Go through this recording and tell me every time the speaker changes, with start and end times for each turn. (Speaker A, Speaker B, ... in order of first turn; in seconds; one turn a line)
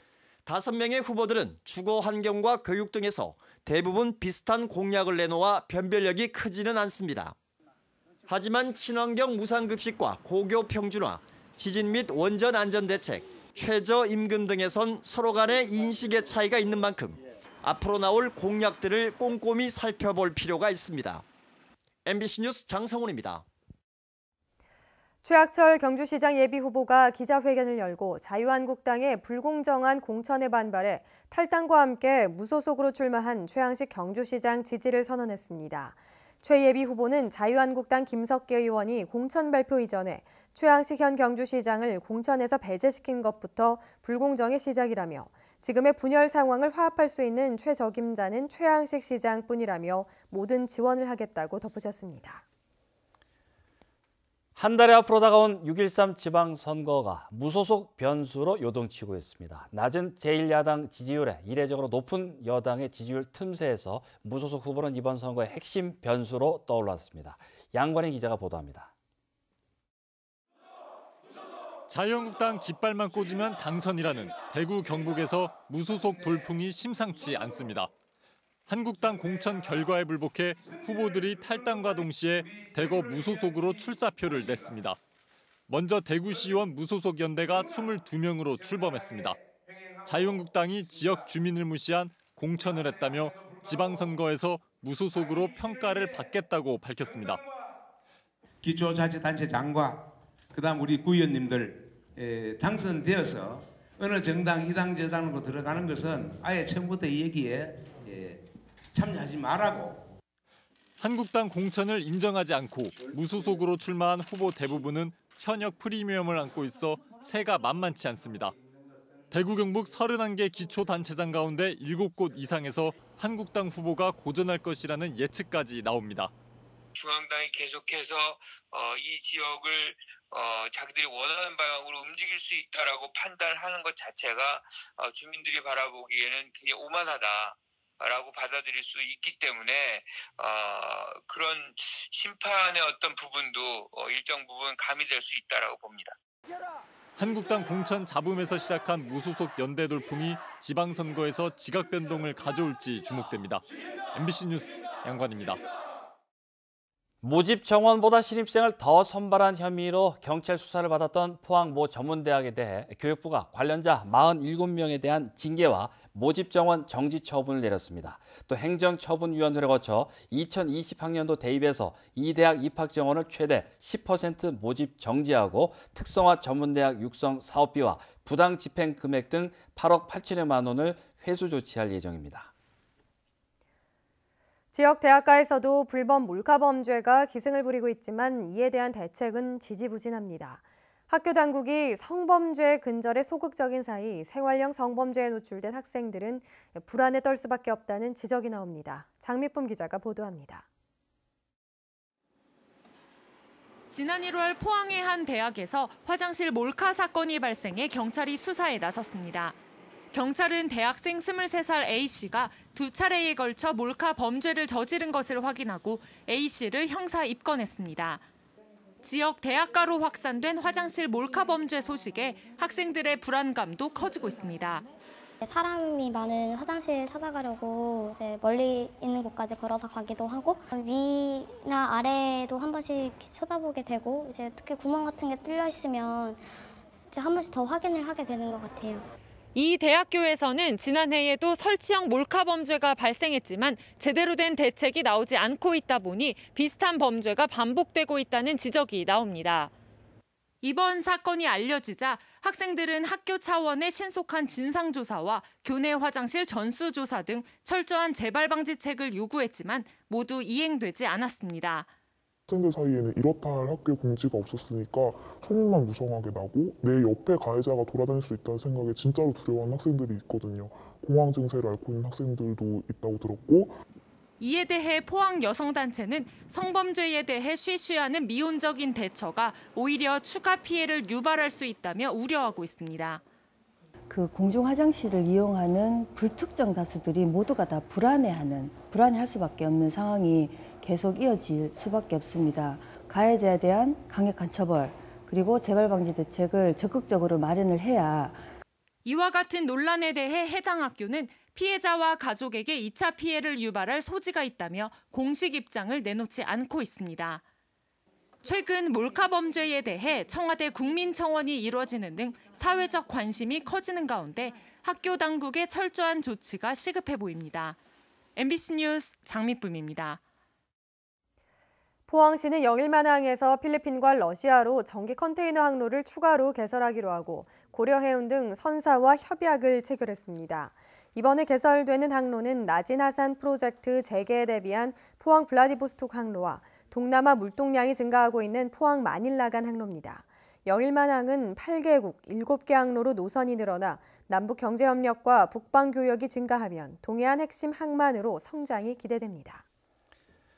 Speaker A: 0.5-7.3
Speaker A: 8.3-21.2
Speaker A: 22.0-23.4
Speaker B: 25.2-52.4
Speaker C: 54.5-68.9
Speaker D: 71.9-77.9
Speaker D: 78.7-85.0
Speaker D: 85.7-89.4
Speaker D: 90.0-97.4
Speaker E: 98.6-108.4
Speaker E: 108.9-110.0
Speaker D: 111.0-118.5
Speaker D: 119.3-126.3
Speaker F: 126.9-146.2
Speaker D: 147.2-155.6
Speaker C: 157.2-182.5
Speaker B: 184.7-200.6
Speaker G: 203.9-209.6
Speaker G: 210.1-218.2
Speaker G: 219.0-224.8
Speaker H: 225.4-236.4
Speaker H: 237.1-239.0
Speaker G: 239.5-249.7
Speaker G: 250.6-261.9
Speaker I: 262.5-273.7
Speaker G: 274.4-283.2
Speaker J: 284.1-298.4
Speaker G: 299.0-307.4
Speaker G: 308.4-317.8
Speaker G: 318.4-320.2
Speaker B: 322.1-349.6